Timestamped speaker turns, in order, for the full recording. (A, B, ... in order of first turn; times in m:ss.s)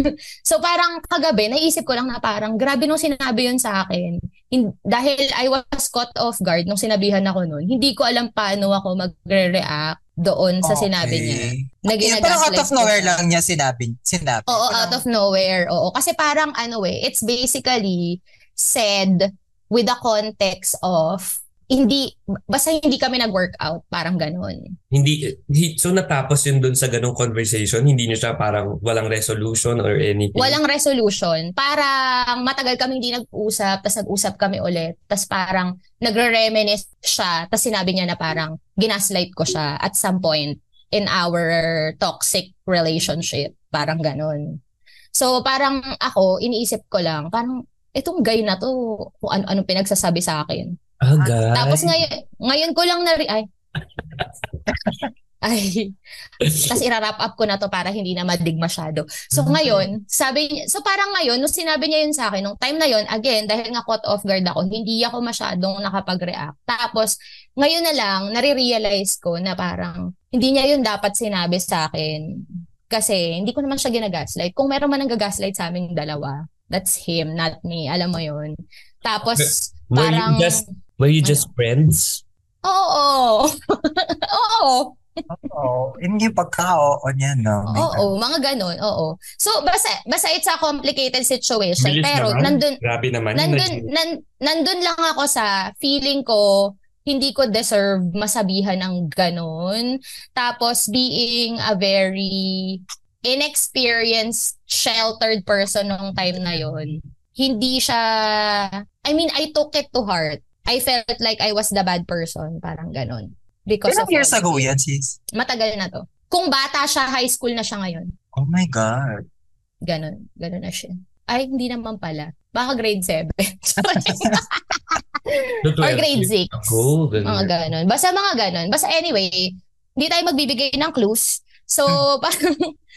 0:00.5-0:13.2 A
0:10.6-0:15.0 B
0:14.5-0:24.6 A
0:24.9-0:30.6 C
0:30.4-0:44.4 A
0:45.1-0:50.7 A
0:51.0-0:52.0 C
0:51.5-0:53.4 A
0:55.4-0:55.9 A
0:56.4-0:56.8 C
0:56.7-1:12.2 A
0:59.4-0:59.7 C
1:12.9-1:18.5 A
1:19.0-1:20.6 A
1:19.3-1:22.2 C
1:21.2-1:21.5 A
1:22.6-1:25.0 A
1:25.3-1:28.1 B
1:27.7-1:32.8 A
1:31.8-1:33.9 C
1:33.4-1:39.9 A
1:40.4-1:54.7 A
1:53.9-1:55.2 B
1:55.4-1:58.1 A
1:58.4-1:59.2 B
1:59.9-2:12.4 A
2:04.0-2:04.4 B
2:05.6-2:07.5 C